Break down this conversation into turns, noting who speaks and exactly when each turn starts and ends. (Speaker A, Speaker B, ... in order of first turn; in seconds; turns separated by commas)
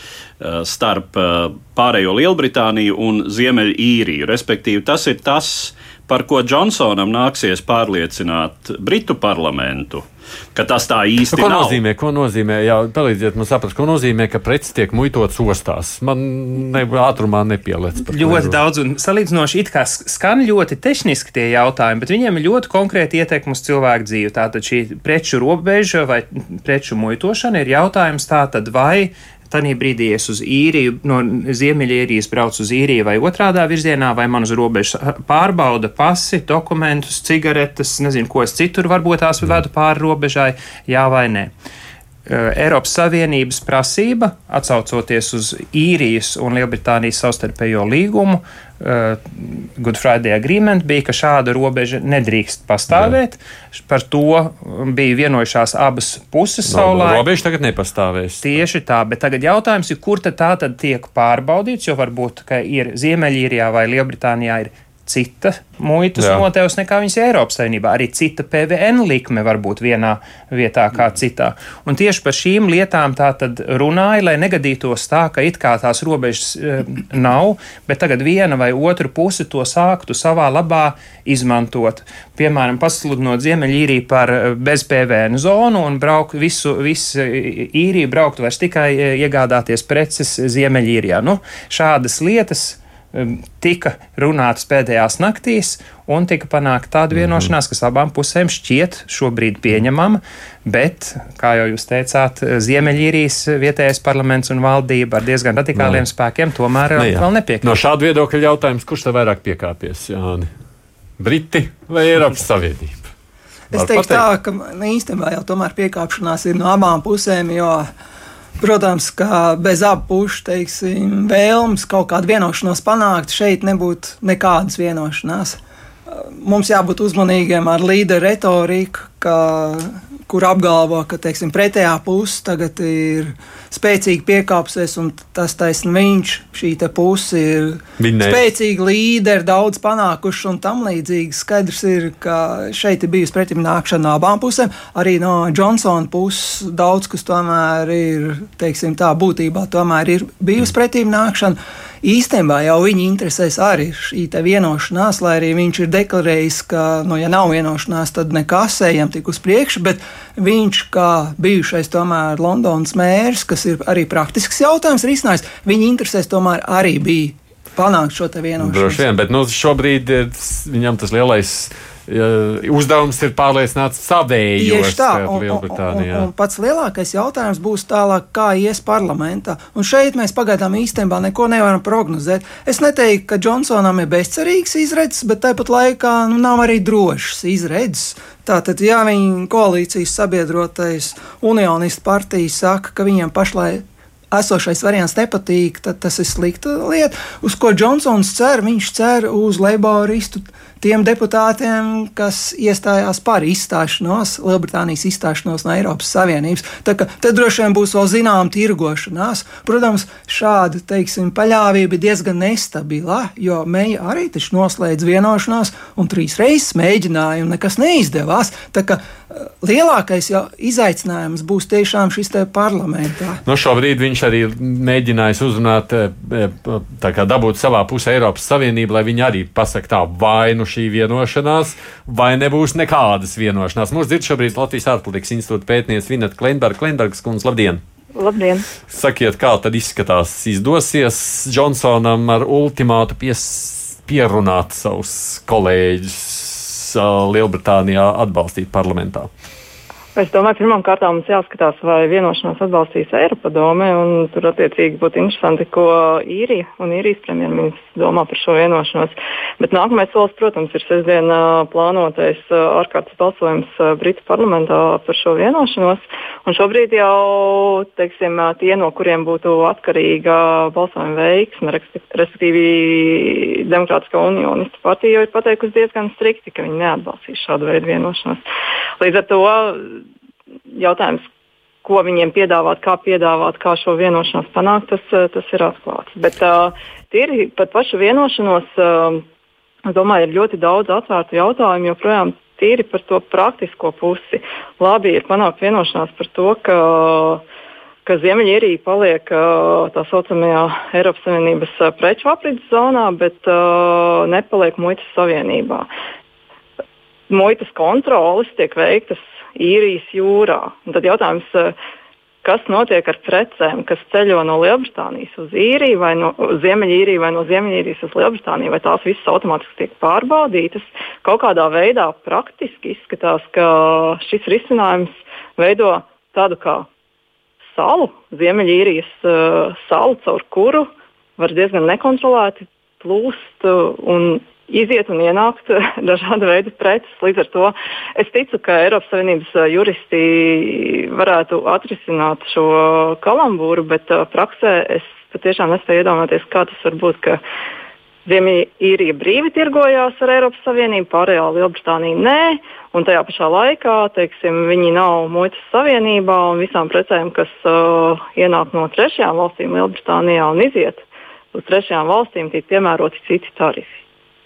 Speaker A: 0.4-10.0, Speaker A: 10.6-11.8, Speaker B: 11.3-18.6, Speaker C: 18.1-41.5, Speaker C: 42.3-57.3, Speaker B: 56.7-58.6, Speaker C: 58.4-107.8, Speaker B: 66.2-66.5, Speaker B: 97.1-97.5, Speaker B: 105.8-106.0, Speaker B: 107.0-110.5, Speaker B: 111.2-113.1, Speaker D: 113.7-117.9, Speaker B: 113.7-114.3, Speaker D: 118.6-125.6, Speaker D: 126.1-169.0, Speaker B: 138.0-138.4, Speaker B: 168.6-176.3, Speaker D: 174.6-223.4, Speaker B: 223.4-237.8, Speaker E: 238.2-238.7, Speaker B: 238.9-249.3, Speaker E: 250.2-278.4, Speaker E: 279.0-279.9, Speaker E: 280.8-281.3, Speaker E: 281.8-289.2, Speaker E: 289.9-297.4, Speaker E: 298.1-305.9, Speaker E: 307.3-311.8, Speaker E: 312.4-326.9, Speaker E: 327.8-347.4, Speaker E: 348.3-364.0